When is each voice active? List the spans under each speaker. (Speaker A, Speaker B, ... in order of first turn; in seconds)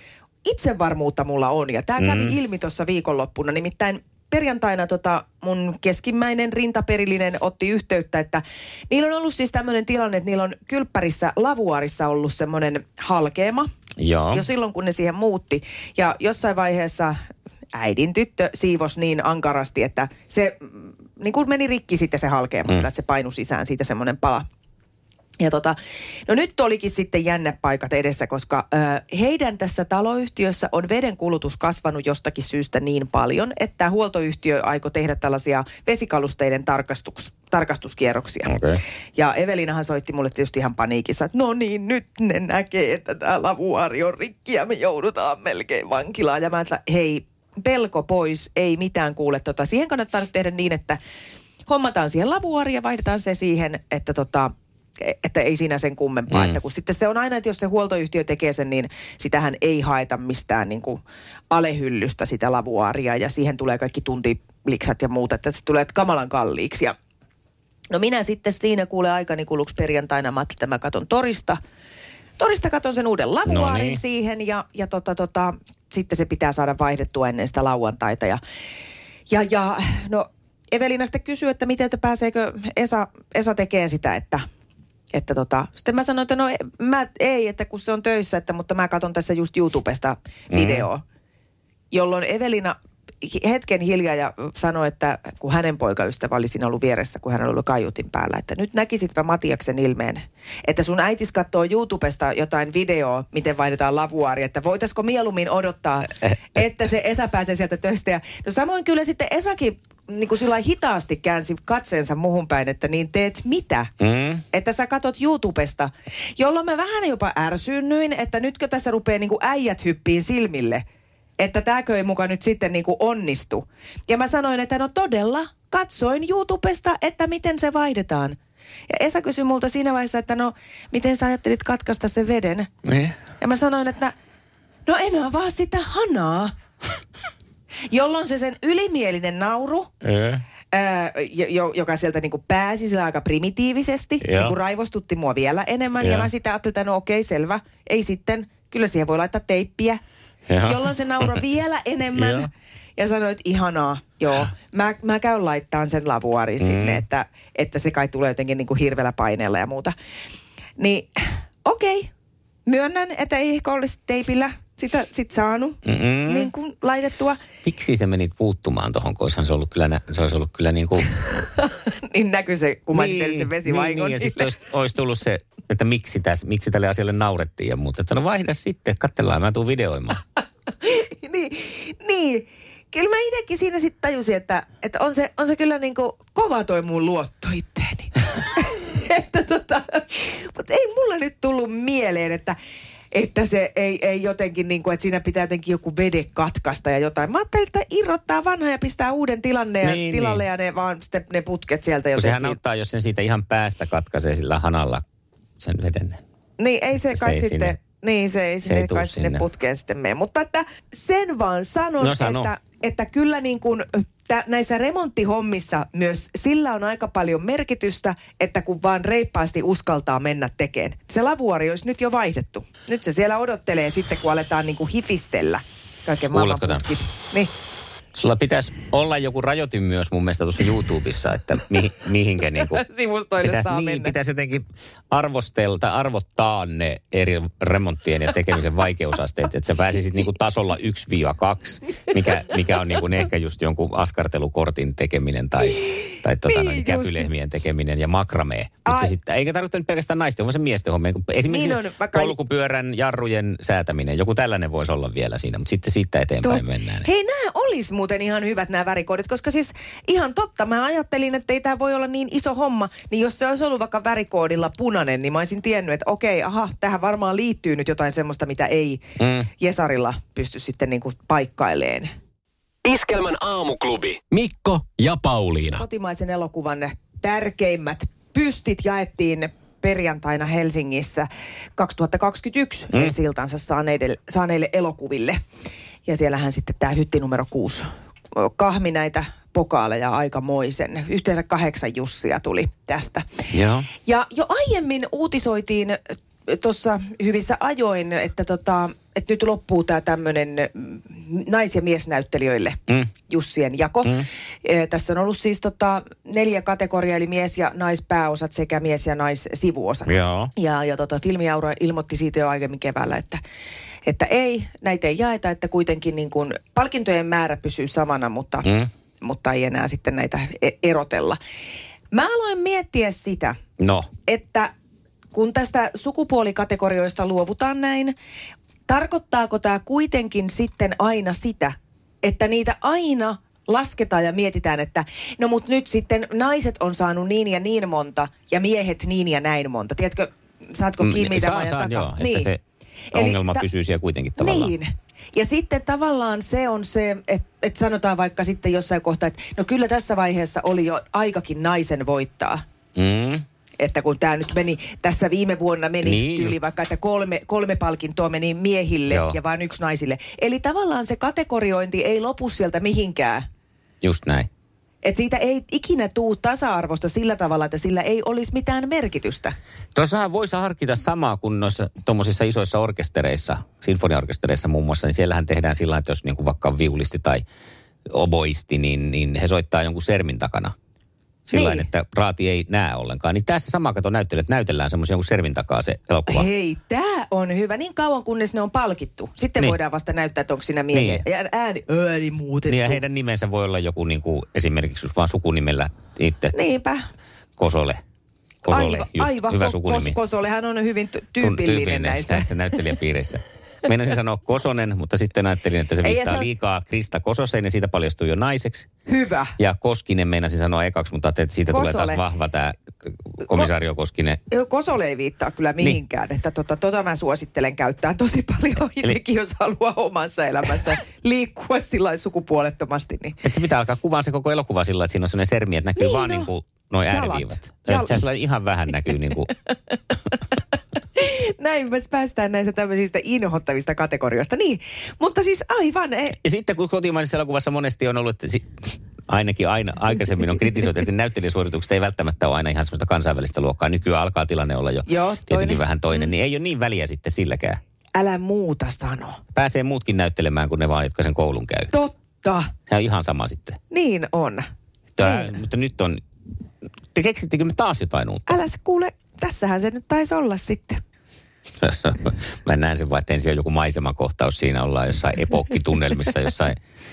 Speaker A: 0.4-13.7, 14.3-24.4, 25.4-25.8, 26.3-38.5, 39.1-51.0, 51.7-66.9, 67.9-71.6, 72.4-78.4, 79.3-84.5, 85.1-91.0, 91.9-113.9, 114.5-120.8, 121.4-128.4, 128.9-132.7, 133.4-134.1, 134.9-136.5, 137.9-139.9, 140.7-150.0, 150.6-159.9, 160.8-162.1, 162.7-167.4, 171.4-174.5, 180.8-192.6, 193.1-202.6, 206.6-227.5, 232.5-234.2, 245.9-247.3, 248.8-249.1, 251.4-252.4, 256.4-269.0, 269.6-272.1, 275.7-285.4, 286.1-313.4, 314.1-318.7, 319.2-321.4, 322.1-323.6, 324.3-324.7, 325.3-328.1, 328.9-342.5, 343.1-343.6, 344.4-352.6, 353.8-363.5, 365.0-369.5, 381.5-381.9, 386.3-393.0, 396.5-397.0, 398.6-402.5, 406.0-406.5, 409.1-409.5, 411.7-412.2, 414.5-423.4, 426.0-426.5, 427.1-428.2, 431.1-436.4, 445.1-446.3, 448.1-449.4, 451.9-452.7, 453.9-454.7, 455.2-455.5, 458.5-461.0
Speaker B: 2.0-2.4, 14.0-14.4, 38.5-38.8, 56.3-56.6, 73.5-74.0, 90.5-90.9, 114.0-114.4, 132.8-133.2, 140.0-140.4, 144.2-144.6, 146.0-146.3, 150.5-151.4, 152.1-152.5, 156.6-157.0, 165.8-166.5, 167.6-171.1, 172.9-180.2, 199.8-200.4, 202.2-205.0, 205.6-206.2, 207.1-207.8, 208.6-209.4, 212.0-212.5, 226.3-226.9, 228.1-232.8, 233.4-257.1, 269.2-269.5, 293.5-293.9, 310.1-310.5, 318.6-318.9, 323.8-324.1, 341.0-342.6, 343.1-344.7, 352.9-353.4, 356.0-356.6, 359.1-359.4, 364.0-364.5, 369.9-377.4, 378.1-380.7, 381.4-386.5, 390.9-391.2, 392.7-396.5, 397.6-398.0, 398.6-400.2, 401.4-408.9, 409.6-414.4, 423.4-429.5, 436.4-447.8, 449.5-451.9, 452.9-453.8, 455.2-456.2, 457.1-458.6, 461.8-466.8
Speaker C: 272.8-275.8